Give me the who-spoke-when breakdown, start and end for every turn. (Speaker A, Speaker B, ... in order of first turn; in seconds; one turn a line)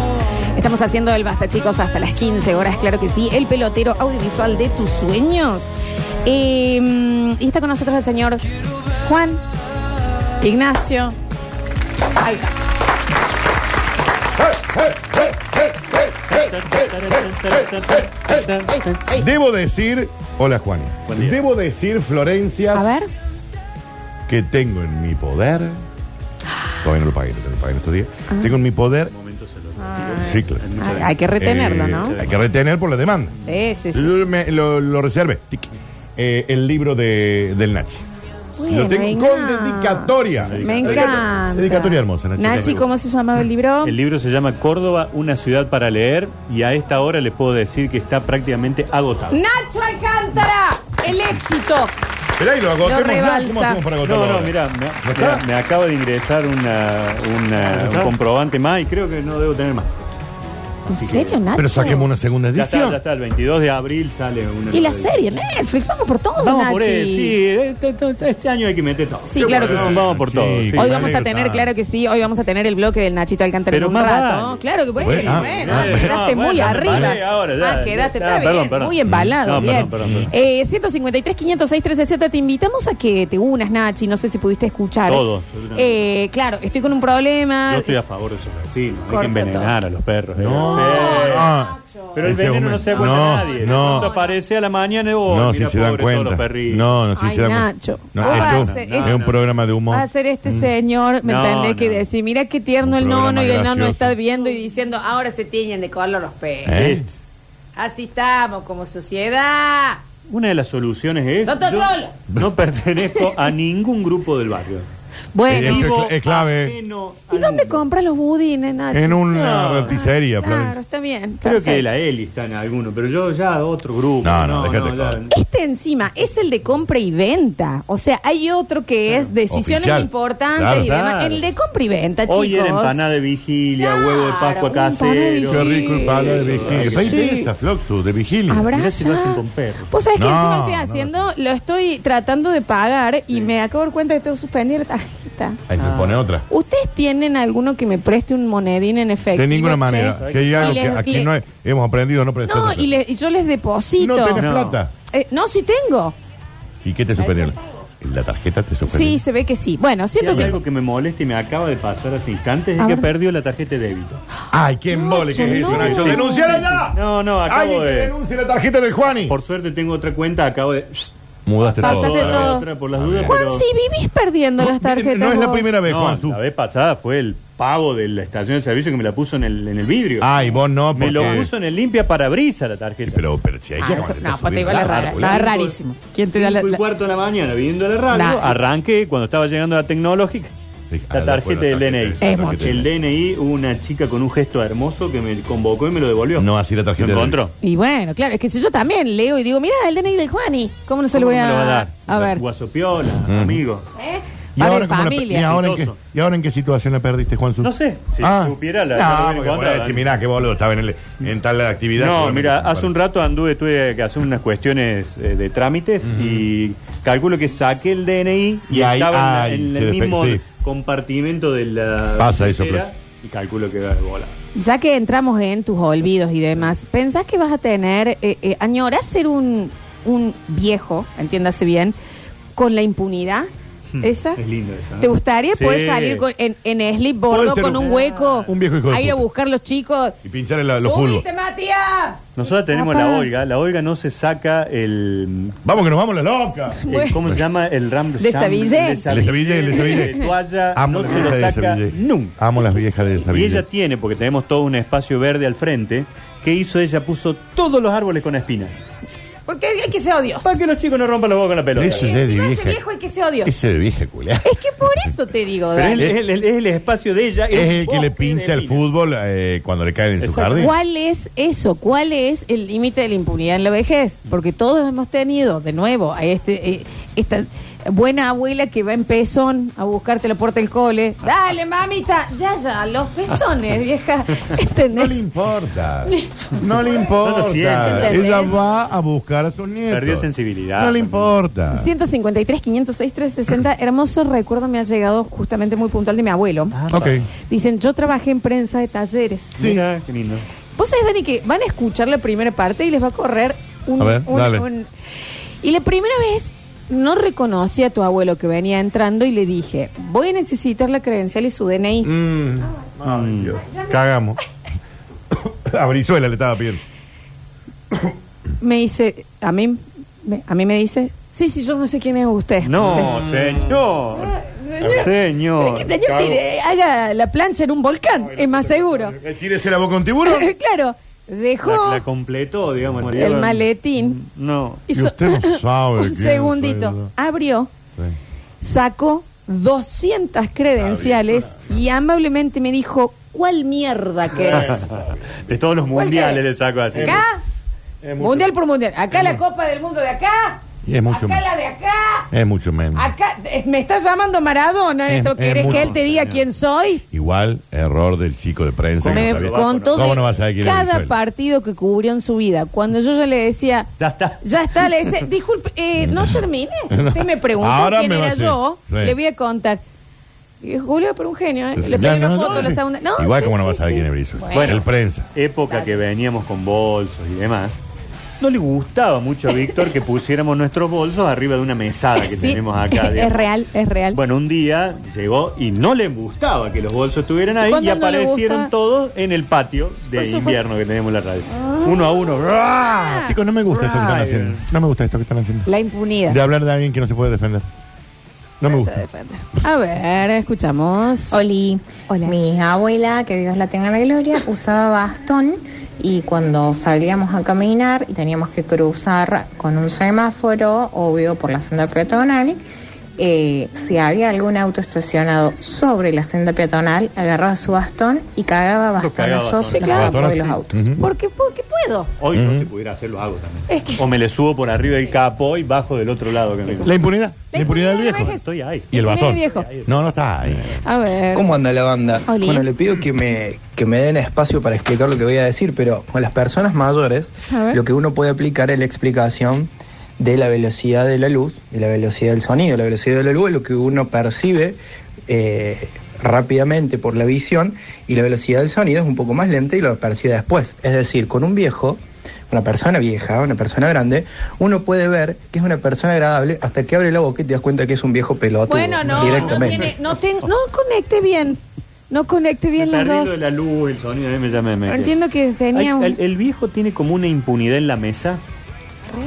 Speaker A: 0.6-5.7
Speaker A: 6.2-8.4
Speaker A: 9.0-9.4
Speaker A: 10.4-11.2
Speaker A: 12.2-12.5
Speaker B: 14.4-18.4
Speaker C: 16.3-19.0
Speaker A: 18.7-19.3
Speaker B: 19.1-23.0
Speaker C: 21.1-21.4
Speaker A: 22.7-23.1
Speaker B: 24.3-25.8
Speaker A: 26.5-26.8
Speaker B: 26.8-29.1
Speaker A: 28.3-28.6
Speaker C: 29.1-31.2
Speaker A: 29.8-32.1
Speaker B: 30.2-30.6
Speaker B: 31.4-33.3
Speaker C: 32.0-32.5
Speaker A: 33.5-34.2
Speaker B: 33.9-38.1
Speaker A: 38.6-44.0
Speaker B: 38.7-42.9
Speaker C: 40.4-41.3
Speaker C: 42.5-42.8
Speaker C: 43.8-49.5
Speaker A: 49.3-51.9
Speaker B: 52.4-55.4
Speaker A: 52.8-53.8
Speaker C: 54.0-60.0
Speaker B: 57.6-58.1
Speaker A: 60.9-62.1
Speaker C: 60.9-61.4
Speaker B: 61.6-63.0
Speaker C: 62.5-65.2
Speaker A: 64.7-67.3
Speaker C: 66.4-71.1
Speaker A: 69.3-70.0
Speaker B: 69.4-71.7
Speaker A: 70.8-88.0
Speaker C: 73.7-80.3
Speaker B: 75.0-77.2
Speaker B: 79.1-80.3
Speaker C: 85.1-85.9
Speaker C: 87.7-91.5
Speaker A: 89.1-89.7
Speaker B: 90.4-94.1
Speaker A: 90.6-92.2
Speaker C: 92.2-96.9
Speaker A: 92.9-94.4
Speaker B: 95.3-100.7
Speaker A: 97.2-99.2
Speaker C: 98.2-99.4
Speaker A: 99.9-106.8
Speaker C: 101.2-102.1
Speaker B: 102.8-104.2
Speaker B: 106.7-107.1
Speaker C: 106.7-107.1
Speaker A: 107.8-110.0
Speaker C: 110.3-114.9
Speaker A: 111.4-112.1
Speaker A: 115.3-115.9
Speaker C: 115.5-117.9
Speaker B: 115.5-116.8
Speaker A: 117.3-121.9
Speaker B: 118.9-120.8
Speaker C: 119.3-120.0
Speaker C: 121.4-125.3
Speaker B: 124.2-125.2
Speaker A: 125.3-133.0
Speaker B: 129.5-130.9
Speaker C: 130.8-131.5
Speaker C: 132.3-137.2
Speaker A: 133.8-137.5
Speaker B: 135.5-138.7
Speaker A: 138.5-145.6
Speaker C: 138.7-139.9
Speaker B: 140.2-141.3
Speaker B: 145.7-146.4
Speaker C: 145.8-146.2
Speaker A: 146.5-151.3
Speaker B: 149.3-152.9
Speaker C: 150.2-151.0
Speaker A: 152.5-154.4
Speaker B: 154.0-154.9
Speaker C: 154.4-154.8
Speaker A: 155.1-156.2
Speaker B: 156.8-159.2
Speaker A: 157.2-157.5
Speaker A: 158.9-160.6
Speaker C: 160.2-164.2
Speaker B: 160.3-160.6
Speaker A: 162.8-163.1
Speaker B: 164.5-169.3
Speaker A: 164.9-166.6
Speaker C: 165.4-166.3
Speaker C: 166.9-168.1
Speaker C: 169.3-173.7
Speaker B: 171.5-173.4
Speaker A: 171.8-172.7
Speaker A: 173.3-175.7
Speaker B: 174.6-176.4
Speaker C: 175.8-183.2
Speaker B: 180.2-181.5
Speaker B: 183.1-185.4
Speaker A: 183.8-186.8
Speaker C: 184.7-190.5
Speaker A: 188.1-188.6
Speaker B: 190.9-192.9
Speaker C: 191.1-197.5
Speaker A: 192.2-192.7
Speaker B: 196.4-197.4
Speaker A: 197.6-202.4
Speaker C: 201.1-203.8
Speaker B: 203.3-203.6
Speaker A: 204.0-205.5
Speaker B: 204.6-212.9
Speaker C: 205.3-205.9
Speaker C: 207.6-210.0
Speaker C: 212.0-224.3
Speaker B: 216.1-216.5
Speaker B: 218.7-220.4
Speaker B: 222.2-222.9
Speaker A: 224.6-231.9
Speaker A: 232.6-233.5
Speaker C: 234.0-236.2
Speaker A: 234.0-234.4
Speaker A: 235.0-240.2
Speaker B: 237.3-239.2
Speaker C: 237.6-238.5
Speaker B: 240.2-241.2
Speaker A: 240.8-243.3
Speaker C: 242.4-245.6
Speaker B: 245.7-247.4
Speaker A: 246.9-247.2
Speaker C: 246.9-252.4
Speaker A: 248.2-249.1
Speaker B: 249.1-250.2
Speaker A: 249.7-250.2
Speaker B: 250.8-253.7
Speaker C: 253.3-258.8
Speaker A: 259.5-260.6
Speaker C: 260.4-262.1
Speaker B: 261.8-262.8
Speaker A: 261.9-263.5
Speaker B: 263.4-265.1
Speaker A: 264.4-266.1
Speaker C: 265.8-268.9
Speaker B: 267.5-270.7
Speaker C: 270.2-270.7
Speaker A: 270.6-285.2
Speaker B: 284.9-291.9
Speaker A: 286.1-287.0
Speaker C: 287.2-288.5
Speaker A: 287.8-288.6
Speaker C: 289.9-291.3
Speaker A: 291.7-296.8
Speaker C: 296.7-297.2
Speaker B: 296.9-297.3
Speaker A: 297.5-299.6
Speaker B: 299.6-299.8
Speaker C: 299.6-300.4
Speaker A: 300.8-304.9
Speaker B: 304.0-304.7
Speaker A: 305.6-312.1
Speaker B: 312.0-314.4
Speaker C: 313.1-313.6
Speaker A: 313.7-313.9
Speaker B: 315.3-316.8
Speaker A: 318.6-323.2
Speaker C: 322.6-324.3
Speaker B: 322.8-323.4
Speaker A: 324.4-329.1
Speaker B: 324.8-325.1
Speaker C: 324.9-325.9
Speaker B: 326.0-326.4
Speaker B: 328.2-330.5
Speaker A: 330.2-332.0
Speaker C: 331.6-334.8
Speaker A: 333.1-334.2
Speaker A: 334.9-337.7
Speaker B: 334.9-337.1
Speaker A: 338.6-344.9
Speaker B: 340.8-341.5
Speaker B: 344.4-345.4
Speaker C: 344.5-347.2
Speaker A: 345.9-346.4
Speaker B: 346.9-347.2
Speaker A: 347.0-347.4
Speaker B: 348.0-348.5
Speaker A: 348.2-352.3
Speaker B: 350.8-351.4
Speaker B: 352.3-353.1
Speaker A: 352.9-357.0
Speaker B: 355.1-356.0
Speaker C: 355.6-356.4
Speaker B: 357.1-361.1
Speaker C: 359.0-360.3
Speaker A: 359.1-363.9
Speaker C: 364.0-364.9
Speaker A: 364.4-369.8
Speaker B: 366.0-369.2
Speaker A: 370.6-374.8
Speaker B: 371.8-375.3
Speaker C: 374.5-377.8
Speaker C: 378.4-383.5
Speaker A: 382.2-384.2
Speaker C: 384.1-393.1
Speaker A: 387.6-388.7
Speaker A: 390.1-390.6
Speaker A: 391.5-393.4
Speaker B: 392.9-395.7
Speaker C: 393.7-394.6
Speaker A: 395.7-396.4
Speaker B: 396.3-397.7
Speaker B: 398.6-399.0
Speaker A: 398.6-401.4
Speaker D: 401.3-412.6
Speaker A: 402.1-402.4
Speaker D: 413.2-420.9
Speaker C: 419.0-420.6
Speaker A: 419.7-420.2
Speaker B: 419.8-421.1
Speaker A: 421.0-422.1
Speaker C: 422.2-426.9
Speaker B: 422.3-422.7
Speaker A: 423.7-424.0
Speaker B: 426.8-428.4
Speaker A: 427.5-429.7
Speaker C: 428.0-430.1
Speaker B: 428.9-430.8
Speaker A: 430.8-431.5
Speaker E: 431.3-459.9
Speaker A: 432.3-432.7
Speaker A: 437.5-437.8
Speaker A: 458.7-463.4
Speaker C: 459.1-459.9
Speaker C: 462.8-465.1
Speaker A: 464.9-466.2
Speaker C: 465.7-468.4